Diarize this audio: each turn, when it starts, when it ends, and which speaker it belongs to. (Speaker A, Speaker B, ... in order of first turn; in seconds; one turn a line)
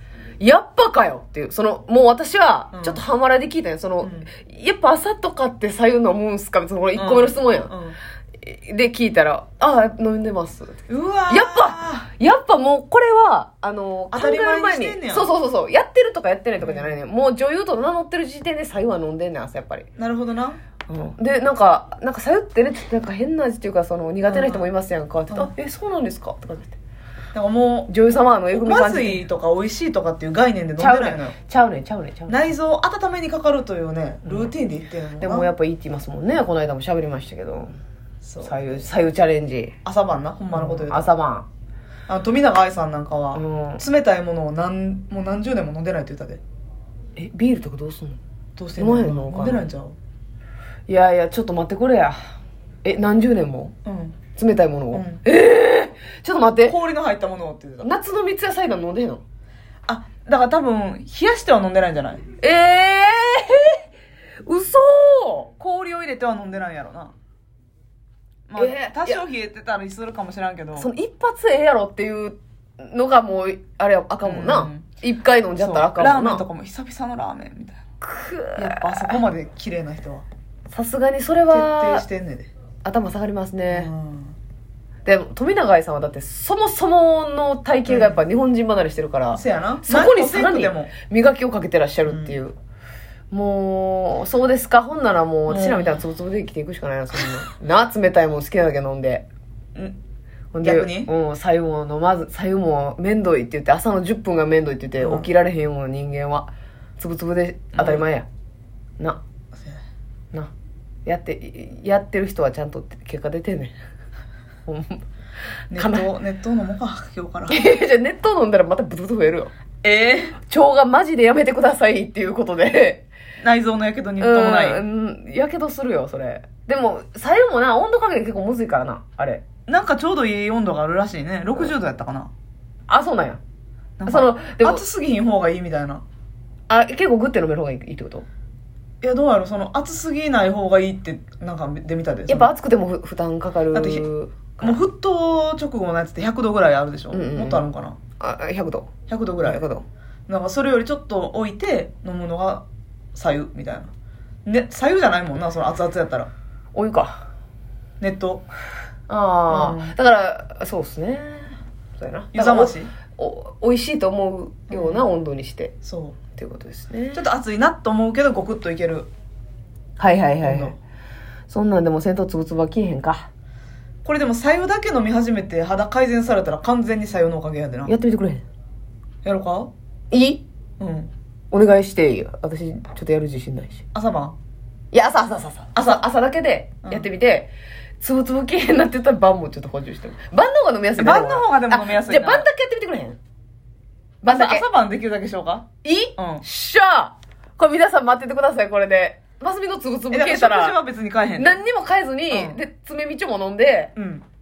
Speaker A: 0.4-7.7
Speaker B: 2.7-3.0
Speaker B: 4.0-4.3
Speaker B: 6.9-8.0
Speaker A: 8.4-10.8
Speaker B: 10.9-12.1
Speaker A: 11.3-19.9
Speaker B: 14.1-15.3
Speaker B: 16.6-16.9
Speaker B: 20.0-20.6
Speaker A: 20.9-26.8
Speaker B: 24.3-24.7
Speaker B: 27.3-27.9
Speaker A: 27.9-29.3
Speaker B: 28.5-31.4
Speaker A: 30.8-32.4
Speaker B: 32.3-35.5
Speaker A: 35.2-37.7
Speaker B: 38.2-38.8
Speaker A: 38.4-39.7
Speaker B: 39.8-41.1
Speaker A: 40.5-41.5
Speaker B: 42.1-46.4
Speaker A: 43.3-43.8
Speaker A: 47.1-48.2
Speaker B: 48.6-50.0
Speaker A: 48.8-49.6
Speaker A: 50.9-52.1
Speaker A: 52.8-53.7
Speaker B: 53.8-54.2
Speaker A: 54.3-56.8
Speaker B: 54.9-55.2
Speaker B: 56.6-57.9
Speaker A: 57.8-59.2
Speaker B: 59.9-62.2
Speaker A: 62.4-63.8
Speaker A: 64.4-65.5
Speaker B: 65.6-67.1
Speaker B: 68.5-70.9
Speaker A: 68.6-69.2
Speaker A: 70.8-76.4
Speaker B: 74.2-74.9
Speaker B: 75.6-77.8
Speaker A: 78.0-79.2
Speaker B: 78.6-80.2
Speaker A: 80.7-82.0
Speaker B: 81.5-82.5
Speaker A: 82.8-83.9
Speaker B: 83.7-84.3
Speaker A: 85.0-92.5
Speaker B: 87.8-88.2
Speaker B: 89.3-90.9
Speaker B: 92.1-92.4
Speaker A: 93.3-99.2
Speaker B: 95.5-96.0
Speaker A: 100.5-108.2
Speaker B: 100.6-101.1
Speaker B: 105.0-105.3
Speaker B: 107.7-108.0
Speaker A: 111.0-113.7
Speaker A: 114.7-115.0
Speaker B: 115.7-117.7
Speaker A: 115.7-116.1
Speaker A: 117.5-119.5
Speaker B: 119.8-120.4
Speaker A: 120.5-123.0
Speaker B: 123.4-124.8
Speaker A: 124.2-129.4
Speaker B: 129.7-132.3
Speaker A: 132.9-133.4
Speaker B: 134.0-136.0
Speaker A: 134.1-134.8
Speaker A: 136.7-138.2
Speaker B: 139.0-142.5
Speaker A: 142.3-144.8
Speaker B: 143.7-144.0
Speaker B: 144.6-148.0
Speaker A: 147.1-147.6
Speaker A: 148.2-148.9
Speaker B: 149.1-149.6
Speaker A: 149.4-149.8
Speaker B: 150.3-153.9
Speaker B: 154.4-156.3
Speaker A: 156.7-157.2
Speaker B: 158.0-158.4
Speaker A: 159.1-165.7
Speaker B: 159.5-159.9
Speaker B: 162.3-162.9
Speaker B: 164.7-165.1
Speaker B: 165.8-166.2
Speaker A: 166.3-167.2
Speaker B: 167.1-169.1
Speaker A: 170.0-170.7
Speaker B: 170.4-170.8
Speaker A: 171.5-173.3
Speaker B: 174.0-177.9
Speaker A: 177.9-178.4
Speaker B: 179.2-179.7
Speaker A: 180.1-180.4
Speaker B: 180.8-181.1
Speaker A: 181.5-183.8
Speaker B: 183.9-184.4
Speaker A: 184.9-193.2
Speaker B: 185.7-186.0
Speaker B: 191.0-192.5
Speaker A: 194.2-194.7
Speaker B: 194.2-196.4
Speaker A: 195.8-200.8
Speaker B: 200.1-201.6
Speaker A: 201.4-203.9
Speaker B: 202.3-202.6
Speaker B: 203.9-204.2